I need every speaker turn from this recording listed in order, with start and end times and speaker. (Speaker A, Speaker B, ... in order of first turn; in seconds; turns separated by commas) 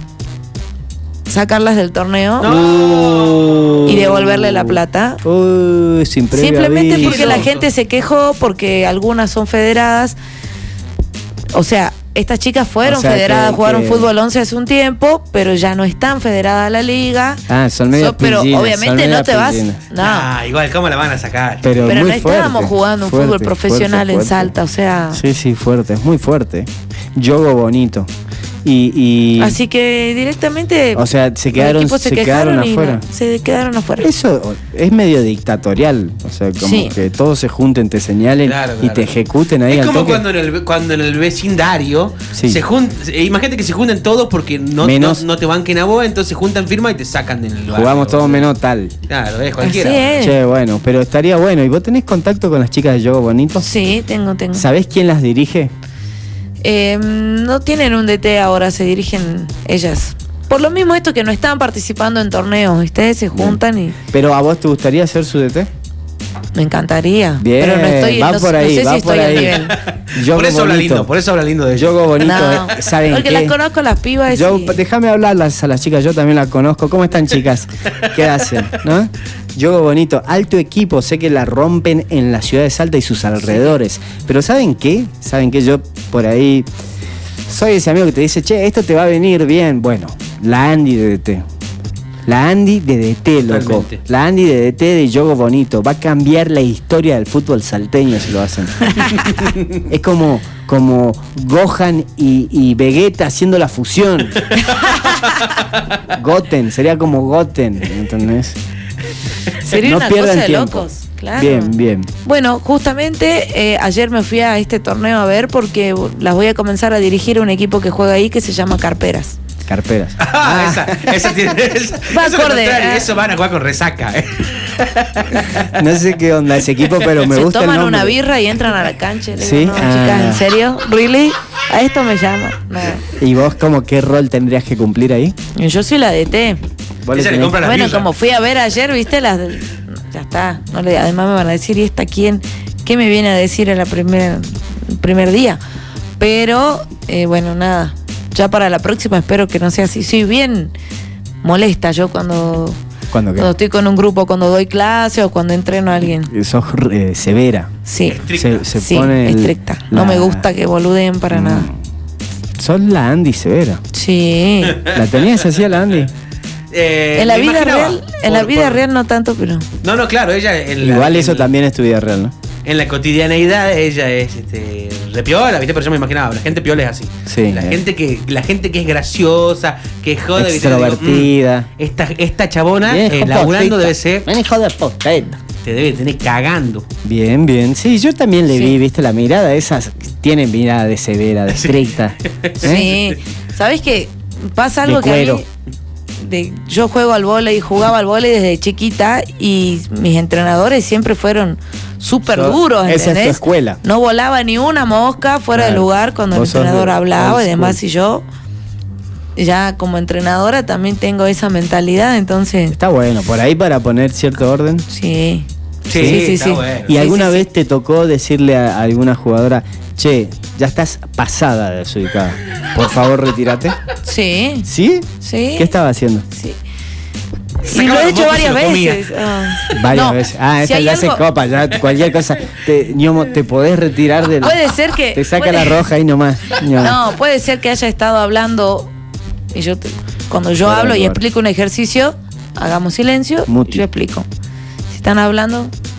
Speaker A: 1.3-2.6, Speaker B: 2.4-4.0, Speaker C: 2.5-7.5, Speaker A: 3.8-5.2, Speaker A: 6.3-10.2, Speaker B: 7.0-7.6, Speaker A: 11.5-17.4, Speaker C: 12.8-14.1, Speaker C: 17.5-19.8, Speaker A: 17.9-20.3, Speaker B: 20.0-22.0, Speaker C: 21.6-24.5, Speaker A: 21.9-25.2, Speaker C: 25.1-28.1, Speaker C: 28.6-29.6, Speaker A: 29.4-34.1, Speaker C: 30.9-33.0, Speaker C: 34.0-40.2, Speaker A: 36.6-36.9, Speaker B: 38.4-39.1, Speaker B: 39.7-48.5, Speaker C: 42.3-42.6, Speaker C: 44.8-45.2, Speaker C: 47.7-48.9, Speaker B: 49.1-50.2, Speaker A: 49.6-50.4, Speaker C: 50.2-53.6, Speaker A: 53.6-54.6, Speaker C: 54.5-55.7, Speaker A: 56.6-64.0, Speaker C: 63.3-63.6, Speaker C: 64.1-65.7, Speaker A: 66.5-69.8, Speaker C: 67.4-69.6, Speaker B: 69.9-72.2, Speaker C: 70.1-71.1, Speaker C: 71.7-73.5, Speaker A: 72.2-74.8, Speaker C: 74.3-86.7, Speaker A: 83.4-83.8, Speaker C: 87.5-91.4, Speaker C: 92.2-99.1, Speaker B: 93.5-94.0, Speaker B: 99.1-99.7, Speaker C: 99.9-104.5, Speaker B: 104.9-105.5, Speaker C: 106.1-108.6, Speaker A: 109.6-119.4, Speaker C: 109.7-112.1, Speaker C: 119.7-121.3, Speaker B: 120.2-125.7, Speaker A: 122.1-123.1, Speaker C: 125.6-128.2, Speaker A: 127.2-133.0, Speaker C: 129.4-130.4, Speaker C: 133.2-135.3, Speaker A: 135.5-136.6, Speaker C: 137.0-137.7, Speaker B: 137.1-138.1, Speaker A: 137.6-145.6, Speaker A: 146.2-150.7, Speaker A: 151.4-152.8, Speaker C: 153.1-153.5, Speaker A: 153.3-156.3, Speaker C: 156.3-157.7, Speaker A: 157.8-158.2, Speaker B: 158.1-158.6, Speaker C: 158.3-160.5, Speaker A: 158.7-161.7, Speaker C: 161.3-161.8, Speaker C: 162.6-163.8, Speaker A: 163.9-164.8, Speaker B: 164.7-166.1, Speaker C: 164.9-166.1, Speaker B: 166.7-168.8, Speaker A: 167.2-169.7, Speaker B: 169.8-171.5, Speaker C: 170.8-172.3, Speaker B: 172.6-184.3, Speaker C: 177.3-177.8, Speaker C: 180.3-181.7, Speaker C: 182.8-185.4, Speaker B: 185.6-186.8, Speaker C: 187.0-192.9, Speaker B: 191.5-193.1, Speaker A: 192.6-195.4, Speaker C: 194.8-195.4, Speaker A: 196.2-208.2, Speaker C: 202.5-203.8, Speaker C: 205.5-207.8, Speaker A: 209.3-212.8, Speaker C: 212.7-214.8, Speaker A: 214.9-217.5, Speaker B: 215.9-216.9, Speaker C: 215.9-216.3, Speaker C: 216.8-223.8, Speaker A: 224.0-224.7, Speaker C: 224.6-226.2, Speaker A: 225.2-225.7, Speaker A: 226.3-226.6, Speaker B: 227.6-229.8, Speaker A: 227.6-231.2, Speaker C: 229.7-237.0, Speaker A: 234.4-235.8, Speaker A: 236.8-238.9, Speaker A: 239.5-244.2, Speaker C: 240.6-241.2, Speaker C: 243.5-243.8, Speaker A: 244.9-245.7